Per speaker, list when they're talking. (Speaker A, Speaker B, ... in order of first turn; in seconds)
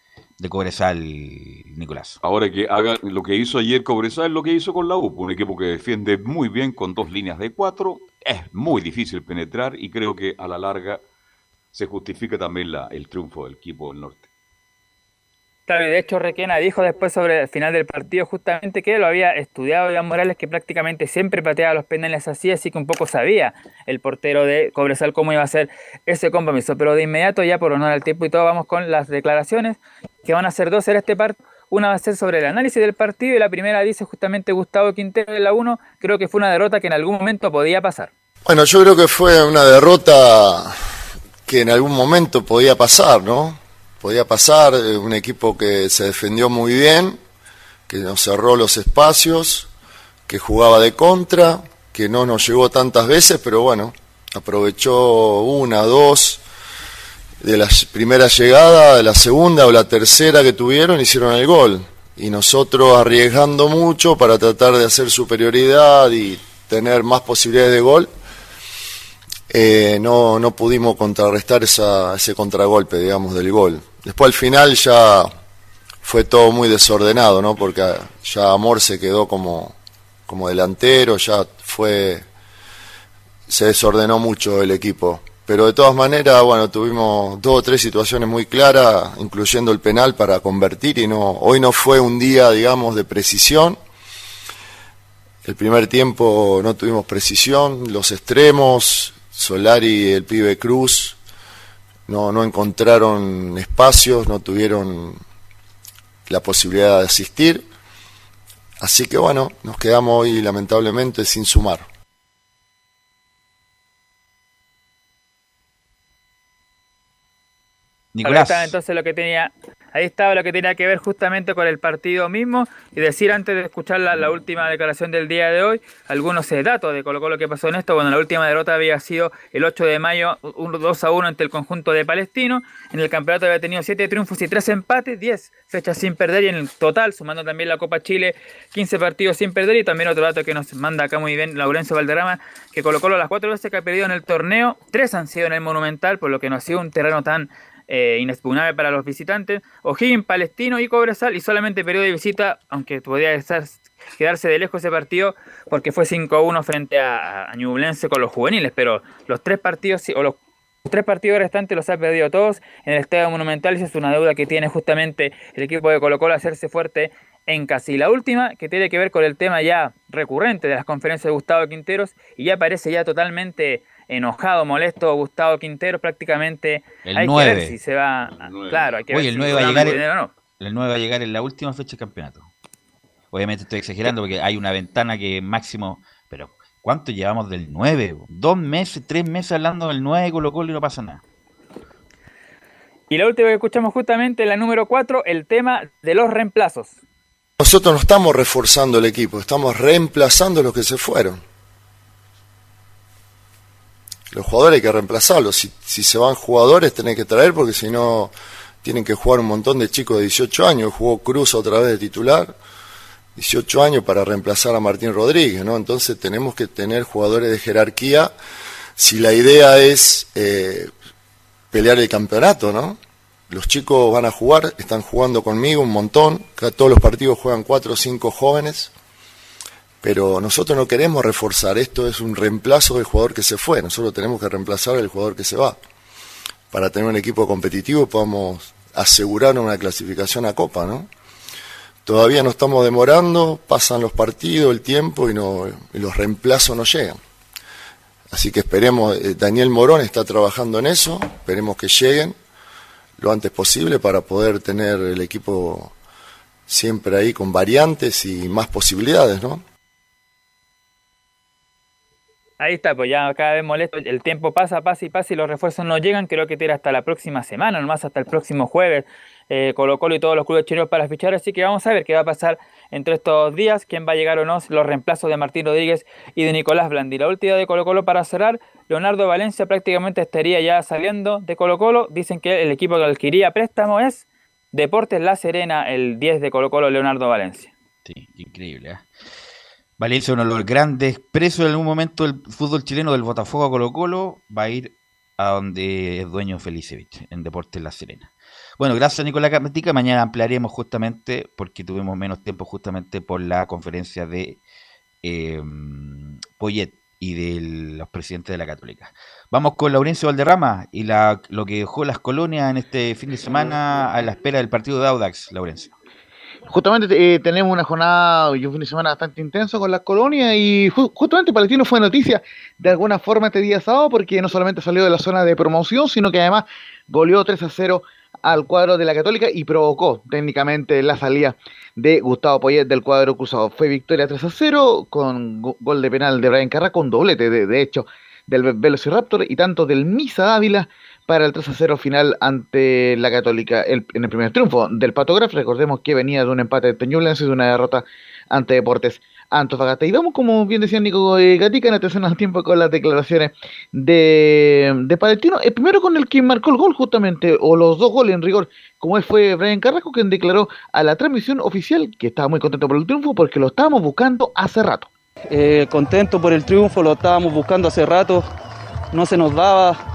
Speaker A: 0.4-2.2, 118.1-118.8, 177.0-177.8, 179.1-180.0, 180.6-182.5, 183.3-191.2, 288.0-289.1, 290.0-304.6, 305.2-315.9
Speaker B: 2.2-11.0, 11.7-14.3, 178.4-180.0
Speaker C: 15.7-38.1, 118.2-180.3, 193.1-196.9, 262.6-287.7
Speaker D: 38.5-40.7, 41.5-47.2, 47.9-49.7, 50.3-56.4, 57.4-68.1, 69.5-75.3, 76.0-79.7, 80.3-82.2, 83.5-93.8, 95.4-101.2, 102.1-105.2, 106.3-107.6, 108.8-111.8, 197.6-201.4, 204.3-212.5, 213.4-218.3, 219.0-220.9, 221.7-223.0, 223.5-228.9, 230.0-235.8, 236.7-241.1, 242.0-247.2, 248.3-252.3, 253.2-255.9, 256.7-259.6
Speaker E: 316.7-365.1
Speaker F: 365.5-368.5, 369.1-370.0